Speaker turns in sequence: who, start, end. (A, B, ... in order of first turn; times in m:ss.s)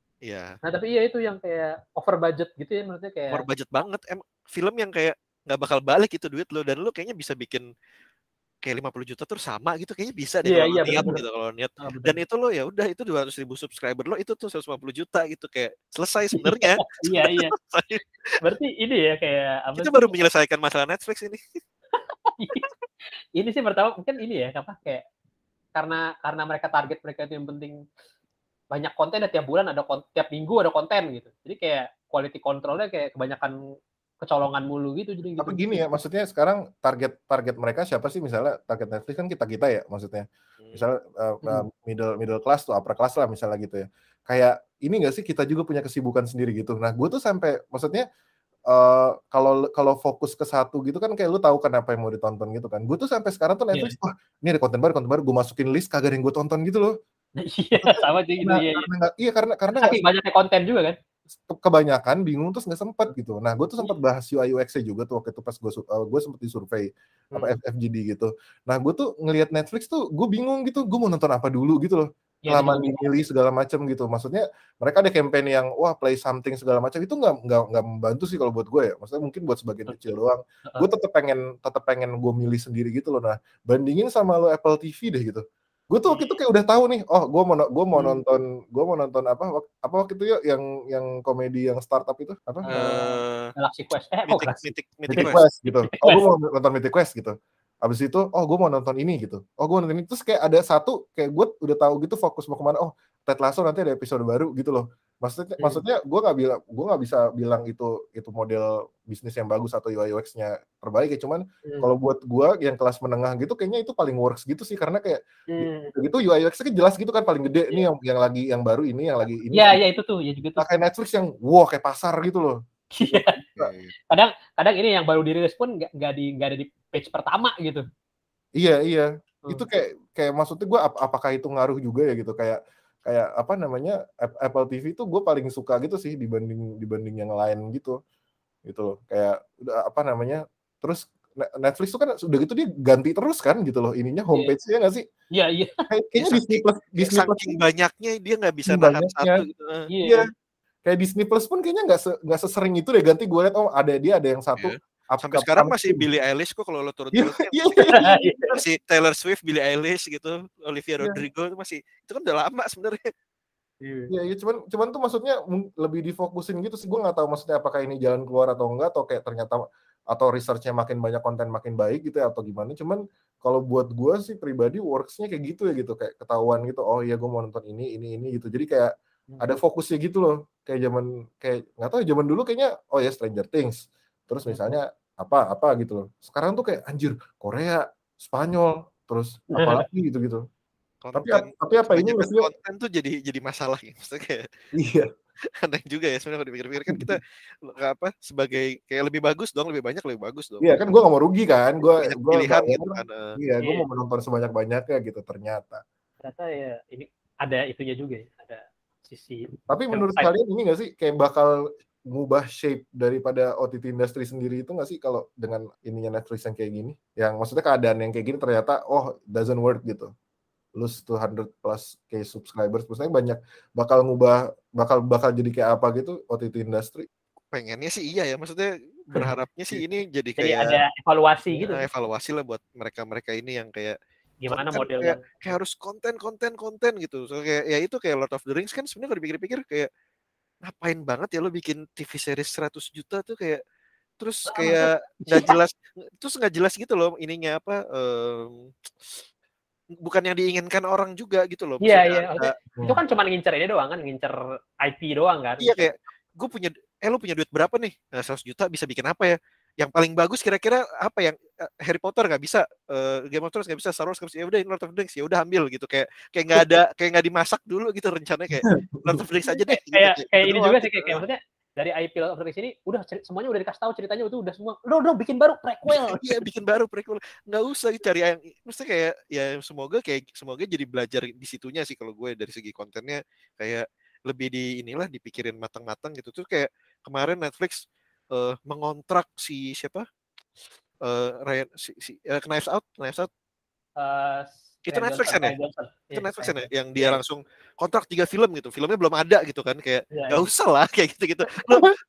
0:00.2-0:00.6 A
0:00.6-0:03.4 B
0:03.3-0:07.6 A
0:08.6-0:18.4 A
0:10.4-0:11.2 B
0:11.8-0:12.2 B
0:16.3-0:17.5 B
0:18.4-0:20.2 B
0:19.8-0:21.4 A
0:22.0-0:22.7 B
0:23.4-0:25.0 B
0:25.8-0:27.7 B
0:28.7-0:33.5 B
0:34.2-0:35.8 B
0:35.4-0:48.0 C
0:48.7-0:56.9 C
0:57.4-0:58.9 B
0:57.9-1:00.0 C
0:59.7-1:01.0 B
1:01.5-1:32.8 C
1:12.4-1:13.0 B
1:27.9-1:28.2 B
1:32.6-1:36.2 B
1:32.7-1:33.5 A
1:34.3-1:35.4 A
1:35.1-1:59.8 C
1:55.5-1:55.9 B
1:59.5-2:00.7 B
2:00.6-2:02.5 C
2:03.0-2:03.4 B
2:03.0-2:03.7 C
2:03.6-2:03.9 A
2:04.1-2:07.8 B
2:08.6-2:18.0 C
2:18.6-2:25.0 C
2:25.3-2:25.7 B
2:25.9-2:27.6 C
2:26.2-2:29.9 A
2:28.7-2:29.4 C
2:29.9-2:30.2 B
2:30.8-2:36.0 C
2:34.6-2:37.9 A
2:37.2-2:38.2 C
2:37.9-2:38.5 B
2:38.5-2:43.1 A
2:43.8-2:44.1 B
2:44.1-3:10.4 C
2:59.3-2:59.6 B
3:04.4-3:04.8 B
3:09.6-3:09.8 B
3:11.0-3:14.4 A
3:11.1-3:12.5 C
3:14.8-3:15.0 C
3:15.6-3:20.8 A
3:20.6-3:25.8 C
3:22.0-3:23.4 A
3:26.2-3:30.3 B
3:29.7-3:31.5 C
3:32.1-3:40.1 C
3:40.8-3:47.1 C
3:47.5-3:50.7 A
3:50.4-3:51.8 B
3:51.6-3:54.0 A
3:54.4-3:55.6 B
3:54.5-3:59.9 A
4:00.7-4:03.6 A
4:04.2-4:09.2 A
4:04.5-4:05.6 B
4:10.0-4:12.5 A
4:11.8-4:15.9 B
4:15.6-4:31.2 A
4:28.7-4:29.2 C
4:29.5-4:36.3 B
4:35.9-4:47.8 A
4:48.3-4:50.0 A
4:51.0-4:53.3 A
4:54.0-4:57.2 B
4:54.9-4:55.5 A
4:56.1-5:01.9 A
5:00.1-5:00.5 B